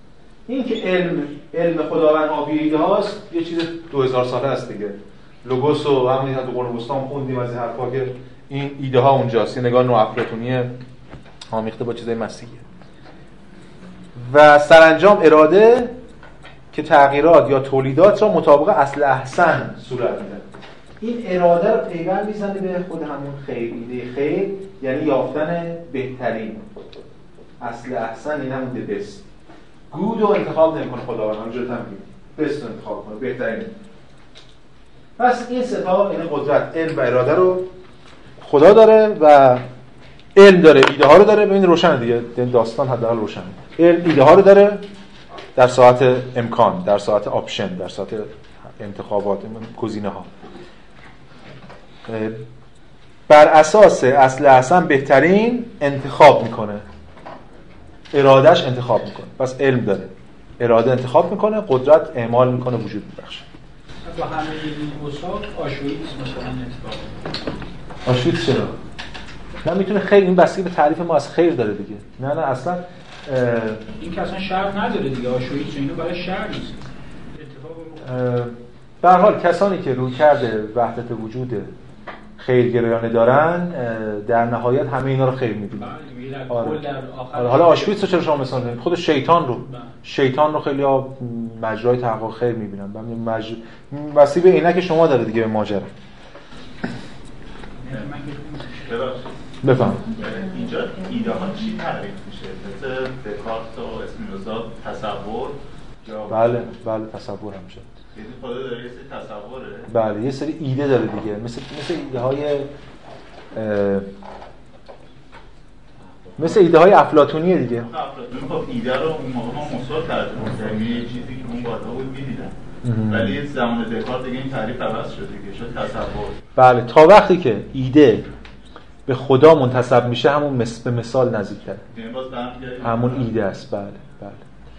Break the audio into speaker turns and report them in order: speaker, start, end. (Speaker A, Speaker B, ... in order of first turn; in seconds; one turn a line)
Speaker A: 0.5-10.7
Speaker A: 11.5-12.6
Speaker A: 14.2-15.9
Speaker A: 16.7-20.5
Speaker A: 21.0-26.6
Speaker A: 27.6-29.2
Speaker A: 29.9-33.7
Speaker A: 35.2-37.7
Speaker A: 38.4-39.6
Speaker A: 40.4-44.8
Speaker A: 45.6-50.3
Speaker A: 52.1-52.4
Speaker A: 53.3-56.9
Speaker A: 58.1-63.5
Speaker B: 64.0-67.1
Speaker A: 68.1-68.7
Speaker A: 69.6-73.9
Speaker B: 74.0-76.8
Speaker B: 77.3-78.0
Speaker A: 78.0-81.7
Speaker A: 82.4-85.9
Speaker B: 85.8-88.1
Speaker A: 86.5-95.9
Speaker B: 89.7-89.9
Speaker B: 97.8-98.8
Speaker C: 98.8-99.3
Speaker A: 99.6-100.0
Speaker C: 100.2-106.7
Speaker A: 106.3-107.9
Speaker C: 108.2-109.9
Speaker A: 109.9-112.7
Speaker A: 113.5-114.1
Speaker A: 116.4-117.9
Speaker C: 117.8-122.5
Speaker A: 122.8-123.4
Speaker C: 123.1-126.4
Speaker A: 126.6-128.3
Speaker A: 129.1-131.8
Speaker C: 131.9-133.3
Speaker A: 132.8-134.4